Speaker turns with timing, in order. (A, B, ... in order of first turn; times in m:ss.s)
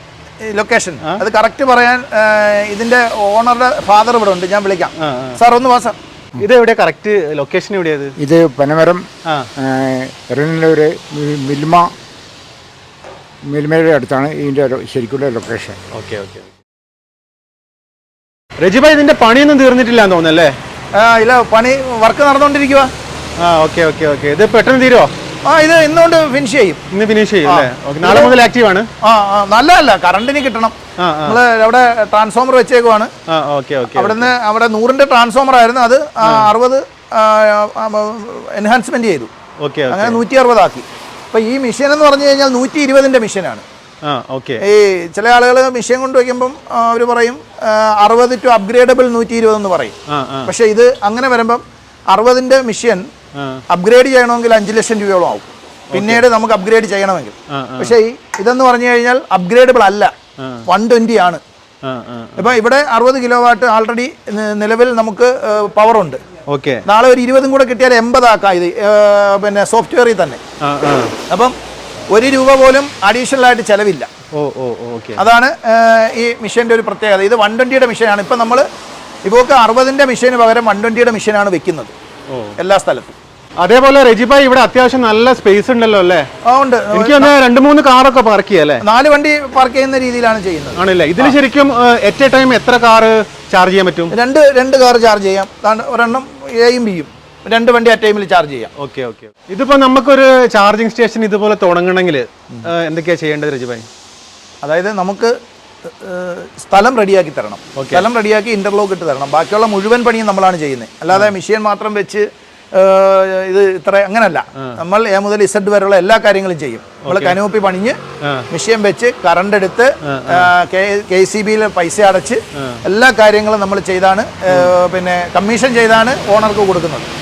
0:00.4-0:06.0 A
0:05.0-0:05.4 B
0:06.4-0:08.2 B
0:08.2-0:09.1 C
0:09.6-0:11.9 C
0:13.5-0:15.8 C
0:15.9-0:16.5 B
0:18.6-0:20.5 B
0:20.9-0:22.9 A
0:23.4-0:25.1 B
0:25.4-0:26.8 A
0:26.9-0:28.9 B
0:27.4-0:28.4 A
0:29.0-0:33.1 A
0:31.0-0:31.4 B
0:33.3-0:34.3 B
0:33.9-0:39.3 A
0:36.2-0:36.5 B
0:39.6-0:40.2 B
0:39.9-0:43.6 A
0:44.0-0:44.6 B
0:44.6-0:50.0 A
0:50.1-0:50.5 B
0:50.5-0:53.1 A
0:53.4-0:53.6 B
0:53.7-1:00.1 A
0:55.9-0:56.3 B
0:57.5-0:58.0 B
1:00.4-1:00.7 B
1:00.7-1:01.4 A
1:01.8-1:02.5 B
1:02.4-1:06.2 A
1:06.5-1:06.8 B
1:06.9-1:10.4 A
1:10.6-1:11.1 B
1:12.1-1:14.1 A
1:14.3-1:15.2 B
1:15.2-1:18.6 A
1:19.2-1:21.9 A
1:22.3-1:22.6 B
1:22.6-1:23.2 A
1:23.6-1:26.3 B
1:26.4-1:27.3 A
1:26.9-1:28.8 B
1:28.9-1:31.4 A
1:30.8-1:34.1 B
1:34.1-1:38.7 A
1:38.8-1:43.9 B
1:44.6-1:45.3 A
1:46.0-1:58.0 A
1:47.8-1:48.1 B
1:57.0-1:57.4 B
1:58.5-2:07.1 A
2:00.0-2:00.5 B
2:02.6-2:02.8 B
2:04.5-2:04.7 B